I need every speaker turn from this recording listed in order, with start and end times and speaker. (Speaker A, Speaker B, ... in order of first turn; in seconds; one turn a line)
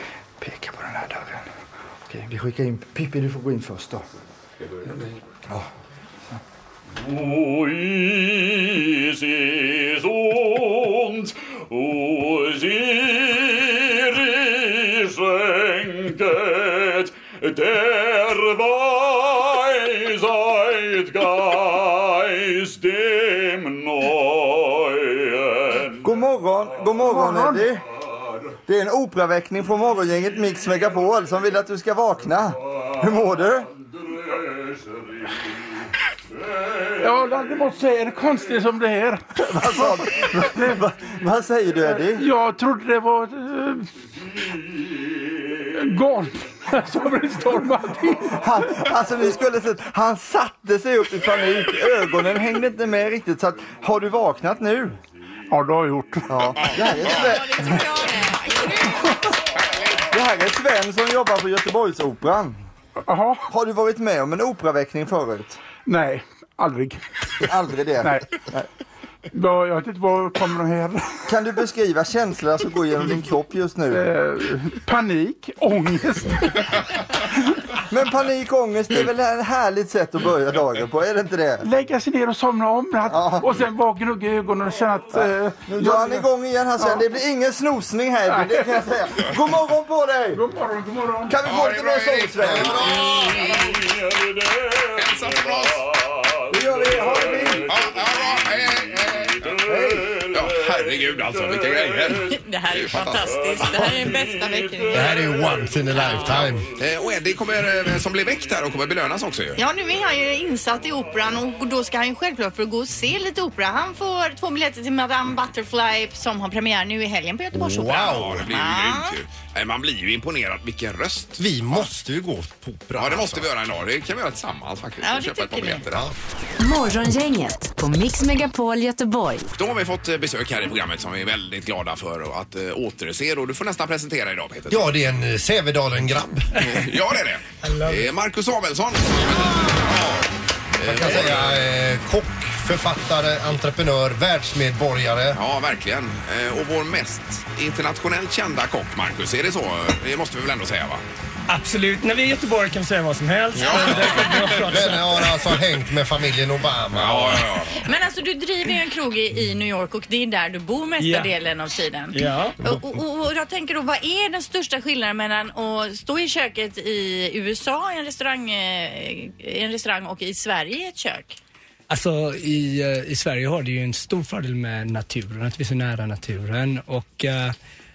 Speaker A: 0.4-1.4
Speaker A: 2.1-4.0
Speaker A: 26.0-27.8
Speaker B: 27.0-27.7
Speaker A: 28.7-33.7
Speaker B: 37.0-40.8
Speaker A: 39.4-42.2
Speaker B: 41.9-43.9
Speaker B: 45.8-48.8
Speaker A: 48.4-55.0
Speaker B: 55.5-56.5
Speaker A: 56.3-57.8
Speaker C: 56.6-57.4
Speaker D: 56.8-59.2
Speaker C: 59.5-60.1
Speaker A: 60.1-62.6
Speaker B: 63.1-63.5
Speaker A: 63.5-65.6
Speaker B: 65.9-67.5
Speaker A: 67.4-68.7
Speaker B: 68.0-68.3
Speaker B: 69.3-71.3
Speaker A: 71.3-74.0
Speaker B: 73.9-76.8
Speaker A: 77.9-81.7
Speaker B: 81.6-87.0
Speaker A: 83.1-83.5
Speaker A: 85.1-90.4
Speaker B: 88.3-89.2
Speaker B: 90.3-91.4
Speaker A: 91.3-93.0
Speaker C: 91.4-93.4
Speaker E: 92.4-93.7
Speaker C: 94.9-95.9
Speaker A: 96.5-97.7
Speaker C: 97.7-99.6
Speaker A: 99.6-100.1
Speaker C: 100.2-103.3
Speaker D: 102.3-105.2
Speaker E: 104.9-106.7
Speaker D: 105.9-106.5
Speaker C: 106.2-109.6
Speaker D: 109.6-119.2
Speaker E: 117.5-118.5
Speaker C: 118.0-121.9
Speaker E: 121.4-123.5
Speaker C: 122.9-126.1
Speaker D: 125.0-125.8
Speaker F: 126.6-129.5
Speaker C: 129.5-134.9
Speaker E: 134.7-136.7
Speaker C: 136.5-141.6
Speaker G: 137.6-138.1
Speaker E: 140.8-145.4
Speaker C: 145.3-151.0
Speaker G: 151.5-155.3
Speaker C: 153.6-154.7
Speaker E: 153.8-154.1
Speaker E: 154.6-157.6
Speaker C: 156.9-157.9
Speaker D: 157.8-171.4
Speaker G: 161.0-161.3
Speaker G: 162.1-162.6
Speaker G: 171.9-177.6